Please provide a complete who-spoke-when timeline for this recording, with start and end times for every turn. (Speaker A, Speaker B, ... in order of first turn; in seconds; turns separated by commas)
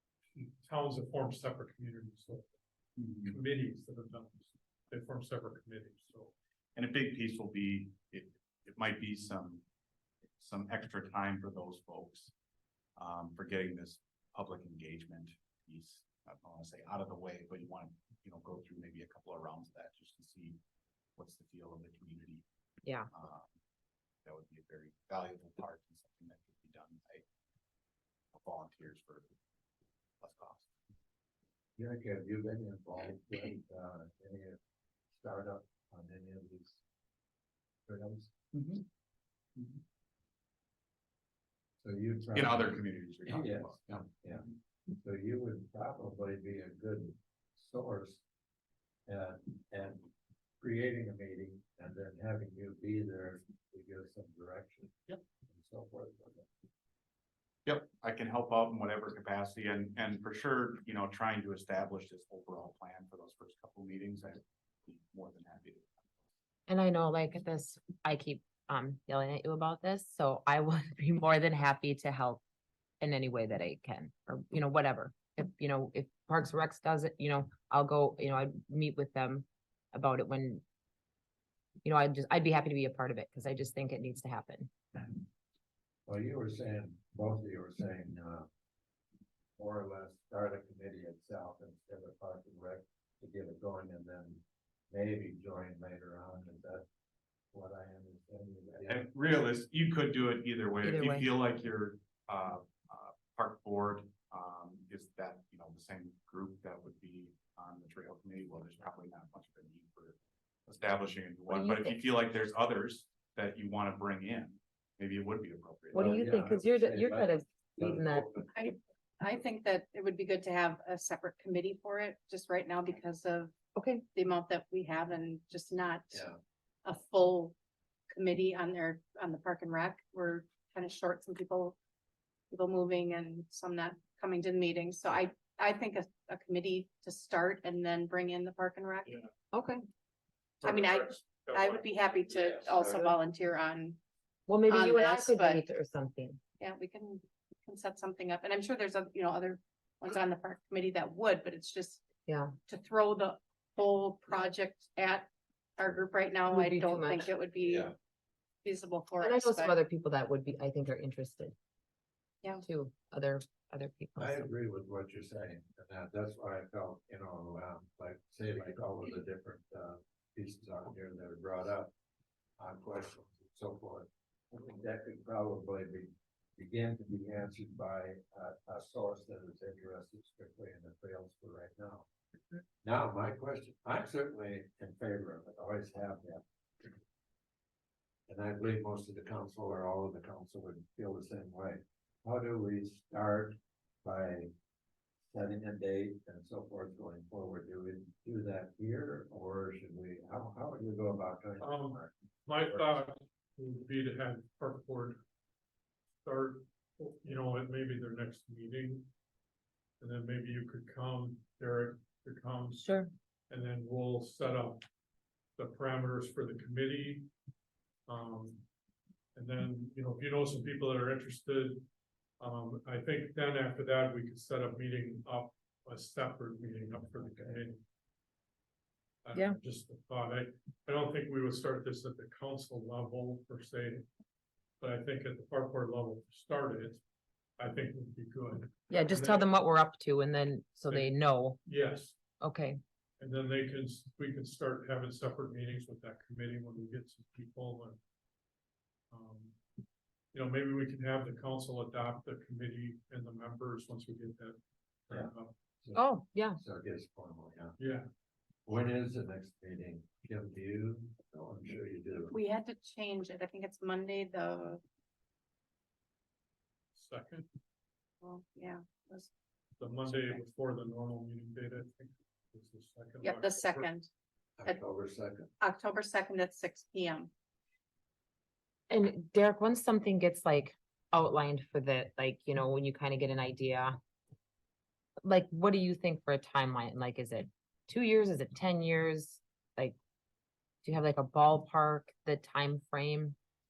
Speaker A: 0.3-2.5, Speaker B: 3.0-3.3, Speaker A: 3.2-6.3, Speaker B: 6.8-9.6, Speaker B: 10.4-12.3, Speaker B: 13.0-20.6, Speaker B: 21.2-22.4, Speaker B: 23.1-23.5, Speaker B: 24.2-27.2, Speaker B: 28.3-29.3, Speaker B: 30.2-30.7, Speaker C: 31.8-34.6, Speaker C: 35.1-36.8, Speaker C: 37.9-38.3, Speaker B: 38.5-38.8, Speaker B: 39.5-39.8, Speaker C: 41.8-48.2, Speaker B: 42.3-44.0, Speaker C: 49.1-50.1, Speaker C: 50.6-55.0, Speaker C: 55.5-56.5, Speaker B: 57.6-66.1, Speaker D: 66.7-72.4, Speaker D: 73.0-80.6, Speaker D: 81.8-84.7, Speaker C: 86.1-88.5, Speaker C: 89.6-96.8, Speaker C: 97.5-99.1, Speaker B: 98.9-110.2, Speaker D: 100.8-101.3, Speaker B: 110.7-116.3, Speaker D: 111.5-112.0, Speaker D: 115.9-118.2, Speaker C: 115.9-118.7, Speaker E: 118.5-123.5, Speaker D: 123.7-124.0, Speaker E: 124.1-126.2, Speaker E: 126.8-127.5, Speaker E: 128.1-131.8, Speaker E: 132.5-139.1, Speaker D: 139.5-139.8, Speaker A: 140.6-142.3, Speaker E: 140.6-144.0, Speaker D: 144.5-146.4, Speaker E: 144.7-145.6, Speaker E: 146.6-152.1, Speaker D: 152.3-152.5, Speaker E: 152.7-157.9, Speaker D: 156.4-157.3, Speaker C: 157.6-157.9, Speaker E: 158.6-159.8, Speaker D: 159.2-161.5, Speaker D: 162.6-164.5, Speaker C: 164.2-171.9, Speaker C: 172.6-182.1, Speaker C: 182.8-186.9, Speaker C: 188.3-194.5, Speaker C: 195.3-203.0, Speaker A: 201.6-205.2, Speaker A: 206.2-209.1, Speaker A: 210.0-212.9, Speaker D: 212.8-213.1, Speaker A: 213.5-214.8, Speaker A: 215.6-217.3, Speaker A: 218.1-218.6, Speaker A: 219.3-221.8, Speaker A: 222.4-227.8, Speaker C: 227.2-227.6, Speaker A: 229.2-234.1, Speaker A: 234.8-237.0, Speaker A: 237.6-239.5, Speaker D: 238.9-241.7, Speaker A: 241.6-242.2, Speaker D: 242.4-242.8, Speaker A: 243.2-248.0, Speaker A: 249.1-249.6, Speaker A: 250.3-255.5, Speaker C: 255.1-256.0, Speaker D: 255.9-256.6, Speaker C: 256.6-257.8, Speaker A: 257.8-258.1, Speaker C: 258.6-262.3, Speaker E: 262.3-264.8, Speaker A: 266.9-267.5, Speaker E: 268.2-269.3, Speaker A: 269.8-273.9, Speaker E: 273.2-274.1, Speaker C: 274.6-275.5, Speaker E: 275.6-277.3, Speaker D: 278.9-283.9, Speaker D: 285.2-290.0, Speaker D: 290.8-293.4